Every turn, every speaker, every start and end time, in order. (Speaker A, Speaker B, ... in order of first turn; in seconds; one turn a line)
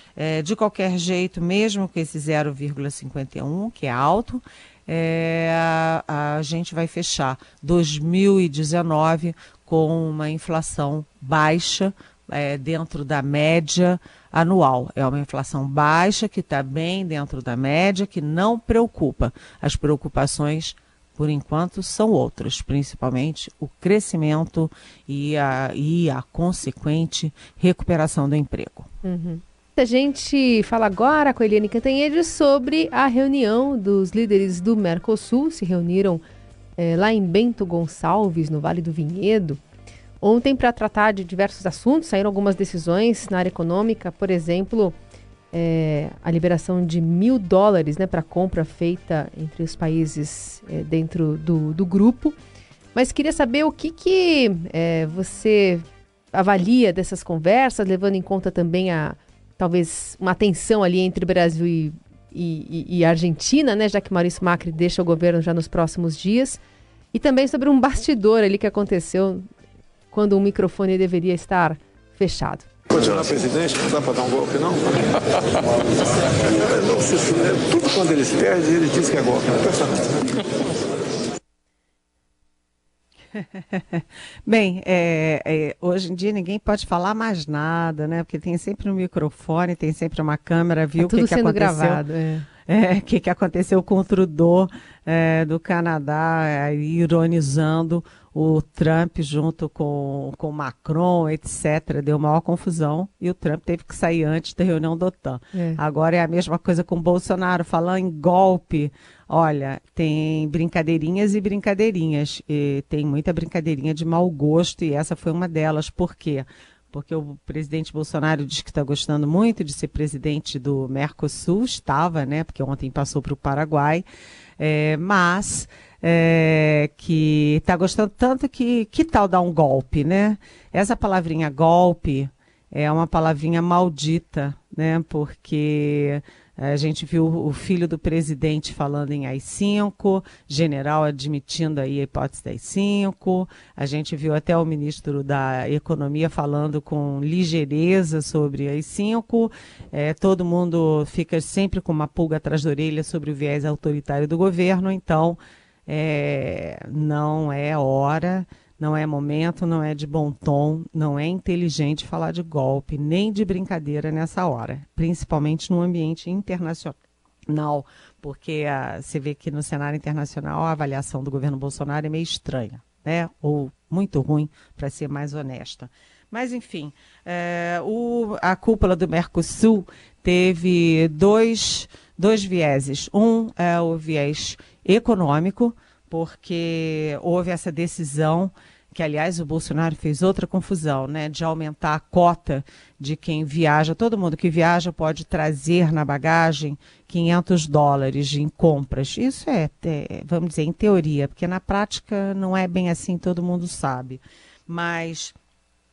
Speaker A: 0.2-28.9
Speaker B: 29.0-36.2
Speaker B: 36.8-39.6
Speaker B: 40.2-45.0
Speaker B: 45.5-52.4
Speaker B: 52.9-66.6
Speaker B: 67.1-69.5
Speaker B: 70.1-72.7
Speaker C: 73.0-74.9
Speaker C: 76.6-79.9
Speaker A: 83.3-92.0
Speaker B: 91.0-92.5
Speaker A: 92.7-124.0
Speaker B: 105.5-105.8
Speaker A: 124.6-167.0
Speaker A: 167.5-205.3